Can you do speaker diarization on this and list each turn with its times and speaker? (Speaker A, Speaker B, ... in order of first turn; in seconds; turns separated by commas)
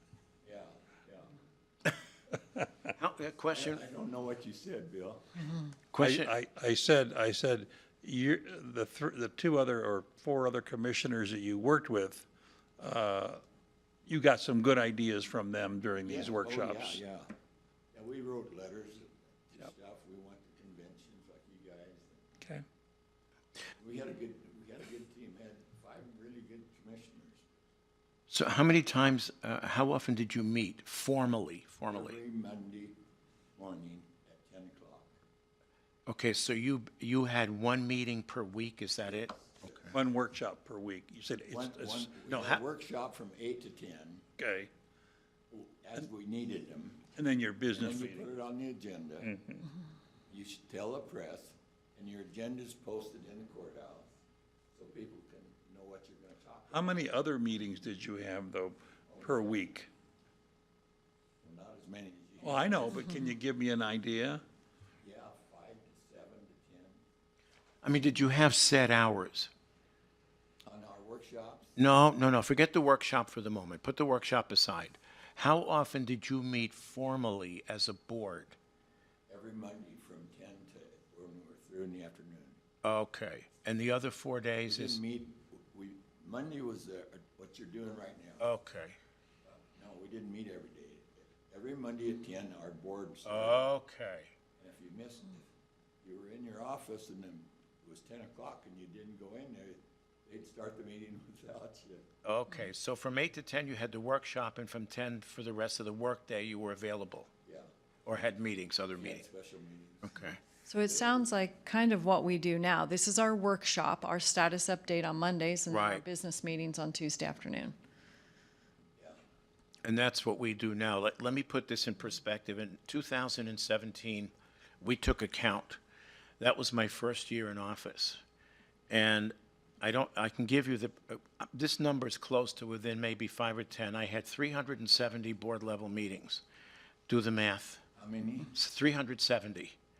Speaker A: 0.4-1.3, Speaker B: 3.0-3.8, Speaker A: 3.5-5.6, Speaker B: 5.9-6.3, Speaker C: 6.0-12.3, Speaker C: 12.8-13.4, Speaker C: 14.1-17.0, Speaker A: 16.1-17.3, Speaker A: 17.9-22.3, Speaker A: 23.7-27.5, Speaker B: 28.3-32.2, Speaker A: 31.9-33.0, Speaker A: 33.6-35.1, Speaker B: 36.1-39.9, Speaker A: 39.1-39.9, Speaker C: 39.9-42.1, Speaker A: 41.5-44.2, Speaker B: 42.3-42.6, Speaker C: 44.4-44.7, Speaker A: 45.5-47.1, Speaker C: 47.2-48.3, Speaker A: 47.7-49.4, Speaker C: 49.2-49.6, Speaker A: 50.3-54.1, Speaker A: 54.8-57.0, Speaker C: 56.7-59.9, Speaker A: 59.1-59.7, Speaker A: 61.4-63.1, Speaker C: 62.4-64.4, Speaker A: 65.0-67.0, Speaker B: 67.8-69.5, Speaker A: 70.7-71.8, Speaker B: 71.8-78.6, Speaker A: 79.3-82.6, Speaker B: 82.8-85.0, Speaker A: 84.7-88.5, Speaker B: 88.4-89.0, Speaker A: 89.5-93.7, Speaker B: 93.2-94.3, Speaker A: 94.6-95.5, Speaker A: 96.0-102.0, Speaker B: 102.2-107.3, Speaker B: 108.0-109.2, Speaker A: 109.0-111.4, Speaker B: 110.0-110.4, Speaker D: 110.7-117.8, Speaker B: 115.7-116.0, Speaker B: 119.8-125.8, Speaker B: 126.4-128.2, Speaker B: 128.9-136.4, Speaker B: 137.1-137.8, Speaker A: 138.0-138.5, Speaker B: 138.5-139.8